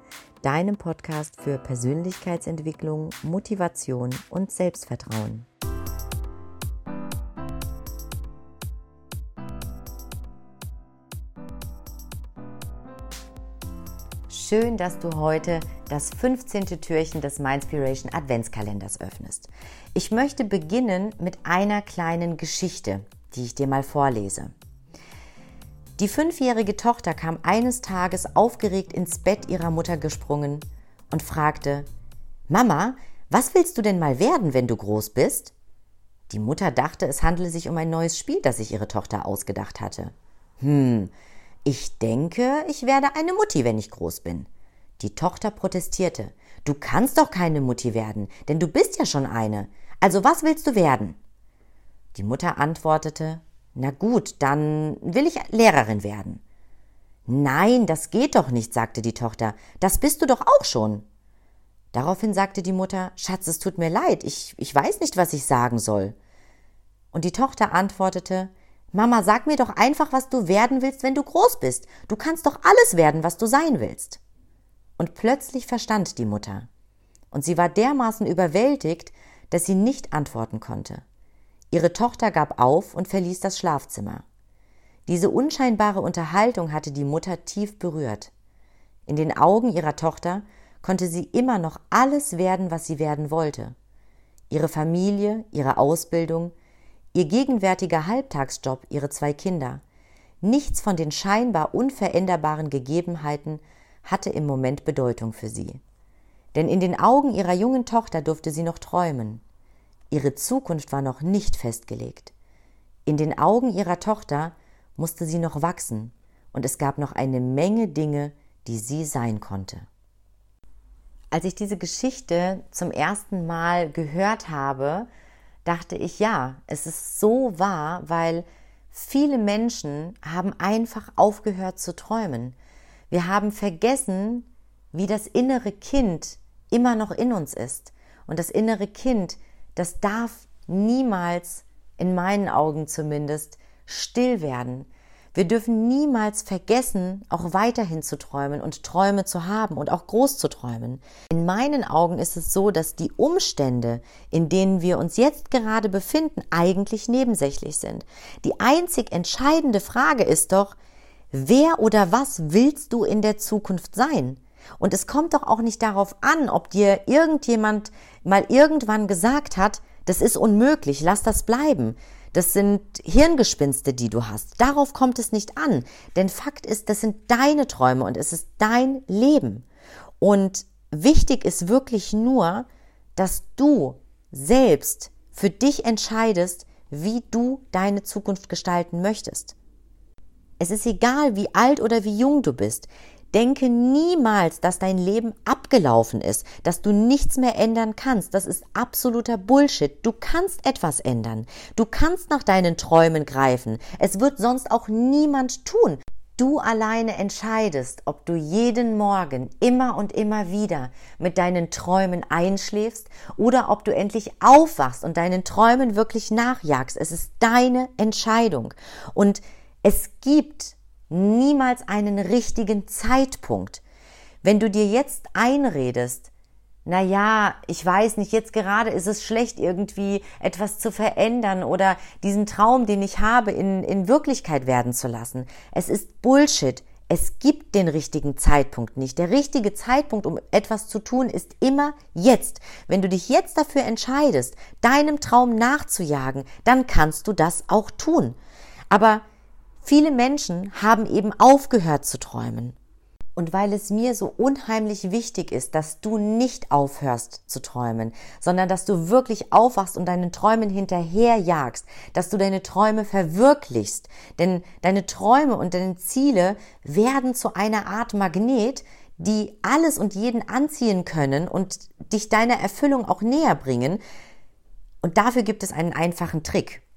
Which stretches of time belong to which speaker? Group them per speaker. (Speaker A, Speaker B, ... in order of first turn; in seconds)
Speaker A: 0.4-5.5, 14.3-24.5, 26.0-31.9, 32.5-35.5, 36.3-41.1, 41.6-44.5, 45.0-51.2, 52.1-56.4, 57.3-61.0, 61.9-66.1, 67.1-74.2, 75.0-76.7, 77.3-81.0, 81.7-84.2, 85.1-88.3, 89.1-93.7, 94.5-96.5, 97.1-99.8, 100.4-105.8, 106.5-109.4, 110.1-112.3, 113.0-119.9, 121.3-125.1, 125.6-132.6, 133.1-160.7, 161.3-179.6, 180.2-189.5, 190.6-223.8, 224.4-226.3, 226.8-248.4, 248.9-249.2, 249.8-252.7, 253.3-274.0, 275.0-276.8